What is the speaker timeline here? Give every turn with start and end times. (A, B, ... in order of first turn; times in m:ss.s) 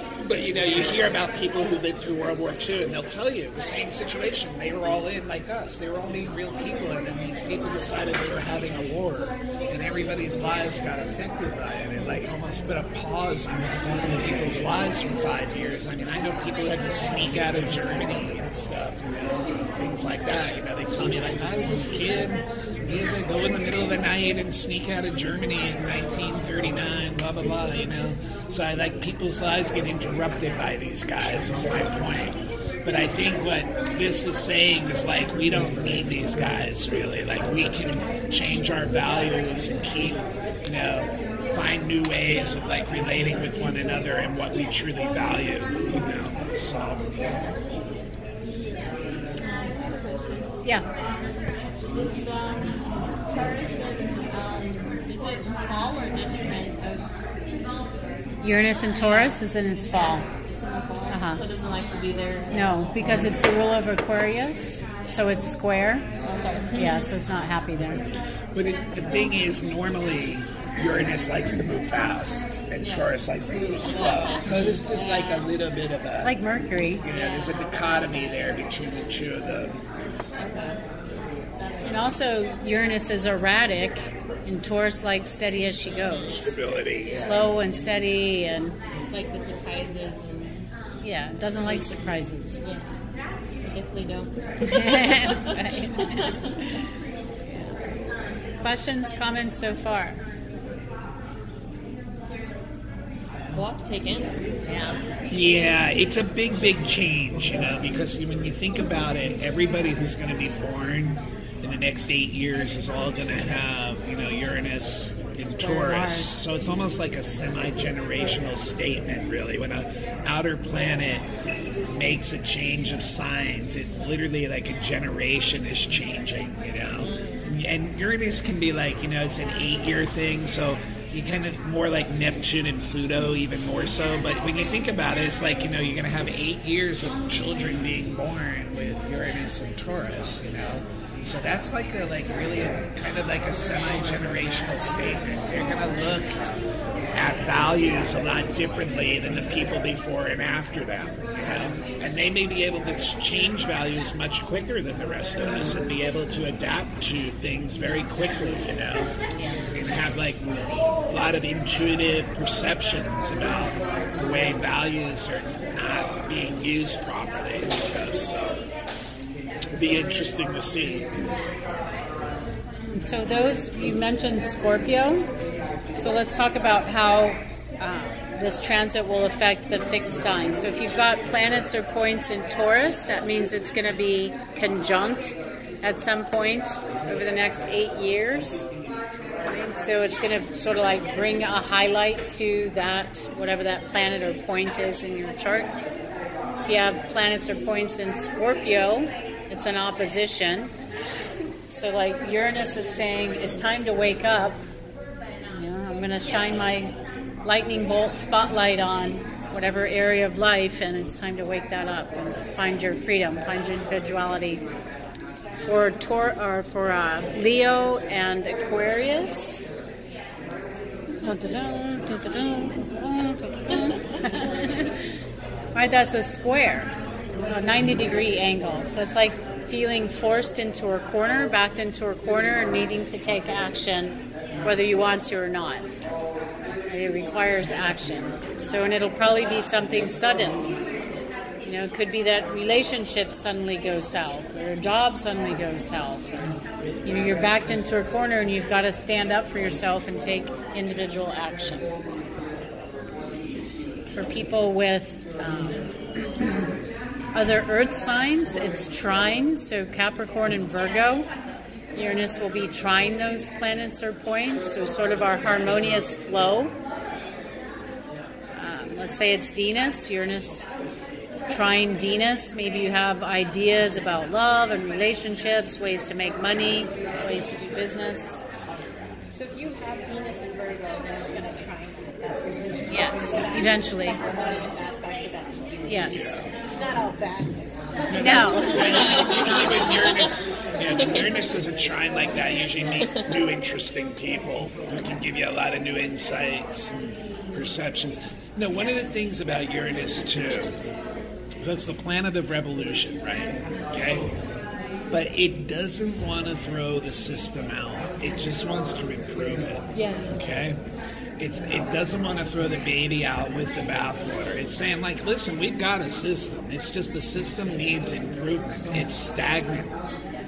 0:00.2-0:47.1 A
0:49.9-0:50.4 B
0:53.4-0:54.8 C
0:56.2-0:56.7 B
0:58.4-1:00.3 D
1:00.6-1:02.5 B
1:01.1-1:01.4 D
1:02.5-1:06.1 D
1:06.7-1:08.0 D
1:08.5-1:16.3 A
1:13.7-1:14.8 E
1:16.2-1:17.0 D
1:17.0-1:19.8 A
1:21.8-1:26.5 D
1:26.3-1:27.4 A
1:27.1-1:28.8 D
1:29.6-1:30.2 B
1:31.0-1:32.6 D
1:33.7-1:34.3 B
1:34.6-1:36.5 D
1:38.6-1:40.2 D
1:43.5-1:44.9 E
1:44.7-1:45.0 C
1:45.3-2:01.3 A
1:55.4-1:56.4 D
2:01.9-2:26.3 A
2:07.0-2:07.5 E
2:27.1-2:39.1 A
2:39.4-2:39.6 D
2:39.7-2:48.6 A
2:49.7-2:51.1 A
2:52.9-2:55.3 D
2:55.9-3:08.7 D
3:09.4-3:15.7 D
3:16.6-3:20.7 D
3:21.7-3:24.6 D
3:25.5-3:34.6 D
3:35.6-3:39.7 D
3:41.2-3:44.9 D
3:45.7-3:46.9 D
3:47.4-3:55.8 D
3:56.9-4:00.7 D
4:01.6-4:06.2 D
4:07.0-4:11.9 D
4:14.1-4:16.7 D
4:17.3-4:21.3 D
4:21.9-4:26.7 D
4:28.5-4:30.7 D
4:31.5-4:38.4 D
4:38.7-4:49.1 C
4:42.9-4:44.2 D
4:45.9-4:46.4 D
4:46.1-4:46.4 A
4:48.1-4:49.4 D
4:48.2-5:00.8 A
4:48.4-4:50.3 E
4:53.0-4:53.2 E
5:01.6-5:04.3 A
5:05.1-5:10.8 A
5:11.4-5:20.0 A